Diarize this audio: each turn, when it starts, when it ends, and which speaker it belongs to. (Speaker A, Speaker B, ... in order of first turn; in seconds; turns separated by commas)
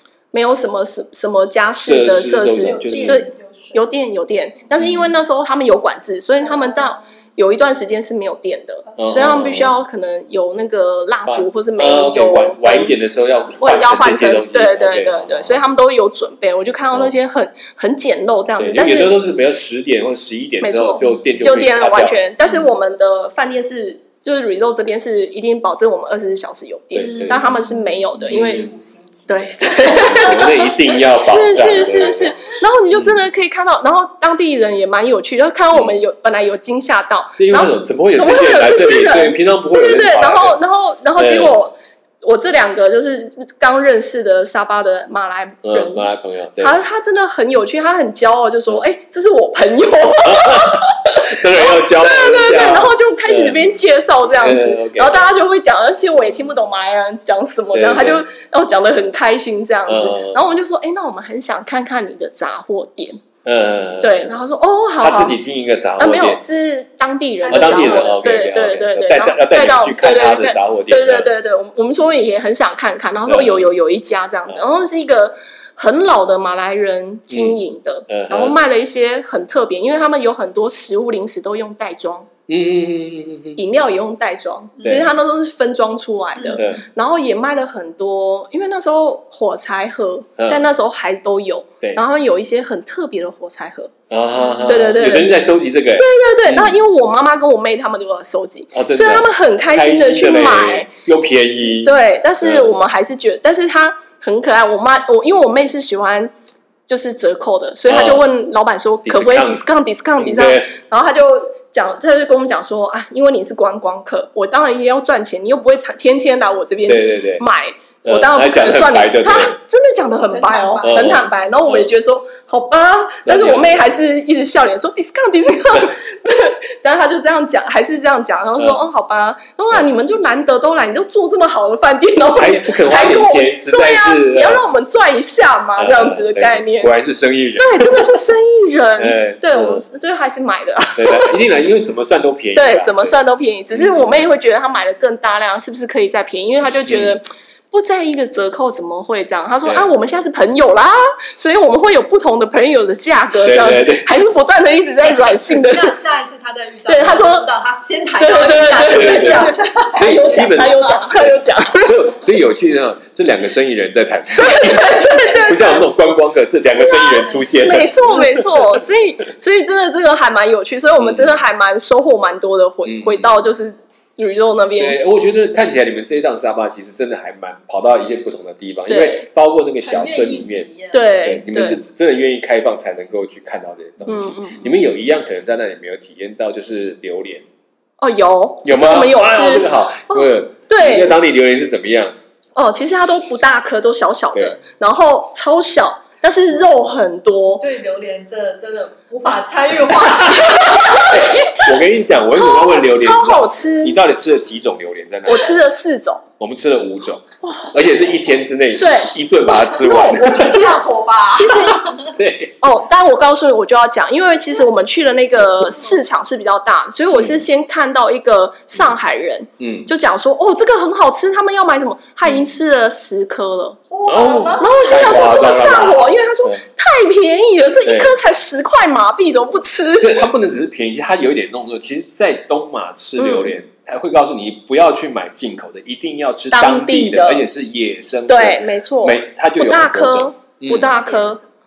Speaker A: 0.3-12.9, Speaker B: 1.8-3.2, Speaker C: 2.6-3.8, Speaker B: 4.8-5.1, Speaker C: 6.4-6.9, Speaker B: 9.0-9.7, Speaker B: 11.2-15.6, Speaker A: 13.6-19.1, Speaker B: 18.6-22.6, Speaker A: 20.6-28.7, Speaker B: 26.9-27.5, Speaker C: 27.0-30.7, Speaker B: 28.3-28.7, Speaker A: 29.3-63.2, Speaker B: 29.8-32.3, Speaker B: 32.9-33.2, Speaker B: 37.4-40.6, Speaker B: 41.2-41.6, Speaker B: 45.6-46.8, Speaker B: 50.2-53.7, Speaker B: 54.3-55.3, Speaker B: 57.7-58.2, Speaker B: 59.9-60.4, Speaker B: 63.4-64.3, Speaker A: 64.0-65.4, Speaker B: 65.0-66.4, Speaker A: 66.0-82.3, Speaker C: 67.4-68.3, Speaker B: 67.5-71.3, Speaker B: 73.2-73.7, Speaker B: 77.3-78.6, Speaker B: 82.5-83.6, Speaker A: 83.5-93.9, Speaker B: 84.8-85.1, Speaker C: 86.4-86.8, Speaker B: 86.6-86.8, Speaker B: 90.4-90.7, Speaker B: 94.1-96.8, Speaker A: 94.6-95.3, Speaker A: 96.0-100.9, Speaker B: 98.7-102.9, Speaker A: 101.8-106.3, Speaker A: 106.9-136.9, Speaker B: 107.9-108.3, Speaker B: 109.0-109.6, Speaker B: 110.2-110.7, Speaker B: 116.9-117.4, Speaker B: 118.0-119.5, Speaker C: 120.3-121.2, Speaker B: 120.8-121.9, Speaker B: 123.2-123.9, Speaker B: 132.4-134.6, Speaker B: 135.8-138.2, Speaker A: 137.6-141.4, Speaker B: 139.0-139.8, Speaker B: 141.0-143.2, Speaker A: 142.5-155.9, Speaker B: 143.7-144.3, Speaker B: 146.9-147.2, Speaker B: 149.6-149.9, Speaker B: 153.4-154.1, Speaker C: 155.6-161.1, Speaker A: 156.9-157.5, Speaker A: 158.2-162.2, Speaker B: 158.8-168.8, Speaker A: 164.4-165.9, Speaker A: 166.7-175.0, Speaker C: 166.8-167.8, Speaker B: 171.0-171.4, Speaker B: 172.8-173.4, Speaker B: 174.8-180.7, Speaker A: 178.9-179.2, Speaker C: 179.8-181.2, Speaker A: 180.9-181.8, Speaker B: 181.2-187.4, Speaker A: 184.0-184.8, Speaker A: 188.0-191.2, Speaker B: 188.6-192.2, Speaker A: 192.6-197.6, Speaker C: 197.6-201.2, Speaker B: 200.3-205.5, Speaker A: 200.3-201.7, Speaker A: 202.3-204.0, Speaker A: 205.3-206.2, Speaker B: 206.4-210.6, Speaker A: 207.4-207.7, Speaker A: 208.8-211.9, Speaker C: 210.1-212.1, Speaker B: 212.1-212.5, Speaker A: 212.6-223.9, Speaker B: 217.1-217.4, Speaker B: 219.6-219.9, Speaker C: 223.9-224.9, Speaker B: 224.1-226.6, Speaker A: 224.6-230.2, Speaker B: 227.8-228.1, Speaker B: 230.0-240.9, Speaker A: 233.2-233.5, Speaker A: 236.5-237.5, Speaker A: 238.3-241.4, Speaker C: 240.7-241.4